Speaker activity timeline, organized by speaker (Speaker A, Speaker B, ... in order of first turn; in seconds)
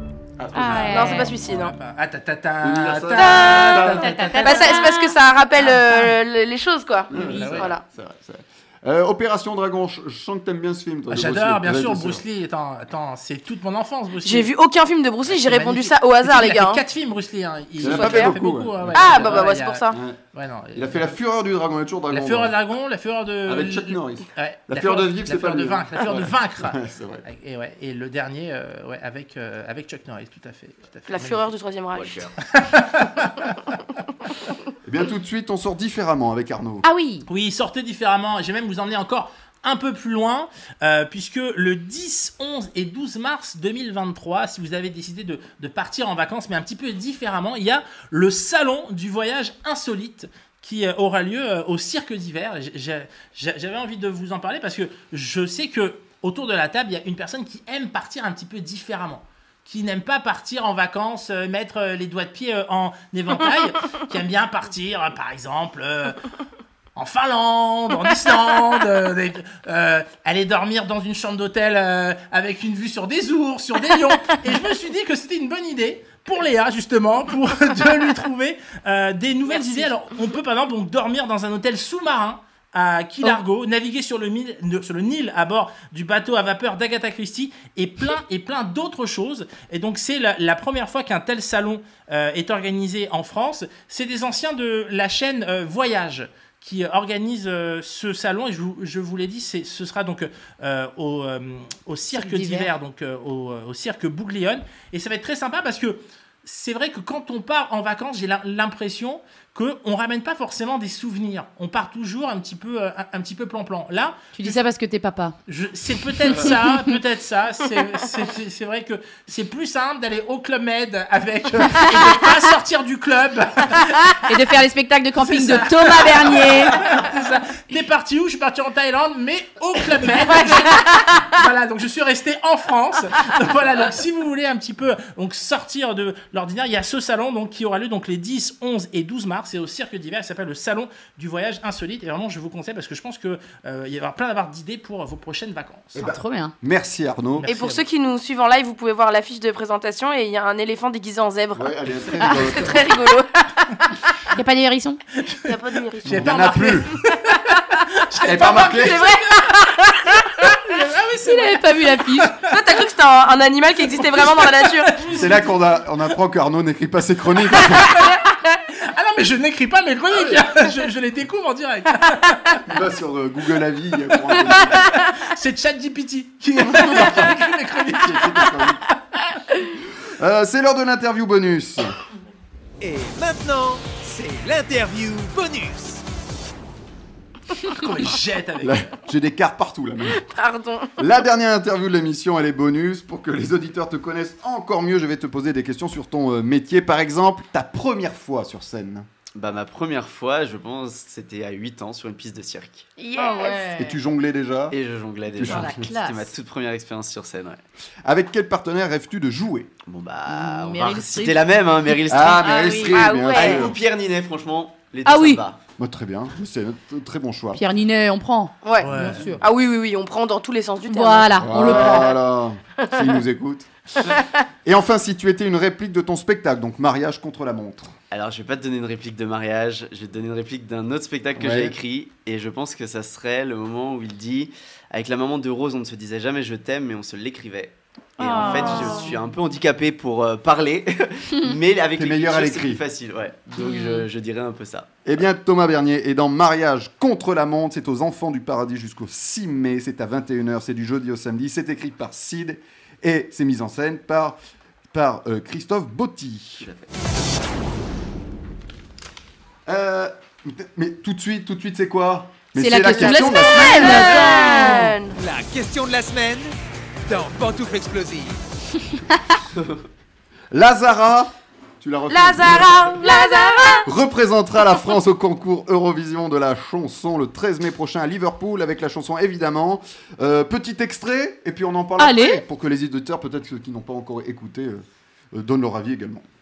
Speaker A: 0.4-1.2, 2.6-4.3, 7.1-12.2, 17.8-20.2, 20.7-22.6, 23.4-27.2, 34.8-36.8, 145.9-147.5, 151.6-153.0, 156.0-156.9, 158.2-159.1, 165.1-168.0, 172.7-174.9, 176.9-177.3, 177.9-178.8, 180.1-181.9, 188.6-190.3, 191.0-199.1, 203.8-204.8, 205.3-205.8, 208.0-209.7, 212.1-213.8, 215.8-217.6, 221.4-223.7, 224.6-227.9, 231.4-231.7, 241.9-242.8, 245.0-254.4, 254.9-256.7, 259.6-264.4, 270.5-273.0, 273.8-286.2
Speaker B: 0.5-1.3, 3.5-5.2, 36.8-37.2, 102.1-102.7, 114.3-115.3, 121.8-122.2, 124.2-126.8, 146.0-146.5, 154.3-155.0, 161.2-162.3, 203.2-203.9, 205.4-206.3, 210.3-211.4, 212.4-212.9, 215.0-215.4, 217.5-219.4, 220.9-222.1, 238.2-239.1, 243.6-244.0, 262.5-264.9, 273.0-273.8, 282.0-282.4
Speaker C: 0.7-4.7, 7.2-7.7, 11.1-14.5, 15.3-21.2, 22.1-31.5, 32.5-33.3, 37.3-66.2, 67.0-114.6, 115.5-124.2, 125.2-146.1, 147.4-147.8, 155.2-159.5, 160.6-162.4, 164.0-165.6, 168.8-172.6, 174.3-178.6, 187.7-188.9, 218.8-219.2
Speaker D: 0.9-1.7, 3.2-3.8, 4.4-7.8, 14.2-16.8, 17.8-18.3, 18.9-20.0, 31.1-32.3, 147.5-153.8, 155.4-156.8, 158.3-159.8, 162.5-165.2, 190.1-190.9, 203.0-203.8, 212.9-213.7, 218.6-222.2, 222.8-223.1, 238.4-239.0, 262.9-265.2, 272.1-273.9
Speaker E: 31.9-32.3, 199.3-202.9, 204.7-207.6, 209.8-215.6, 228.1-244.9, 256.6-256.9
Speaker F: 182.8-186.0, 265.1-266.5, 267.1-268.4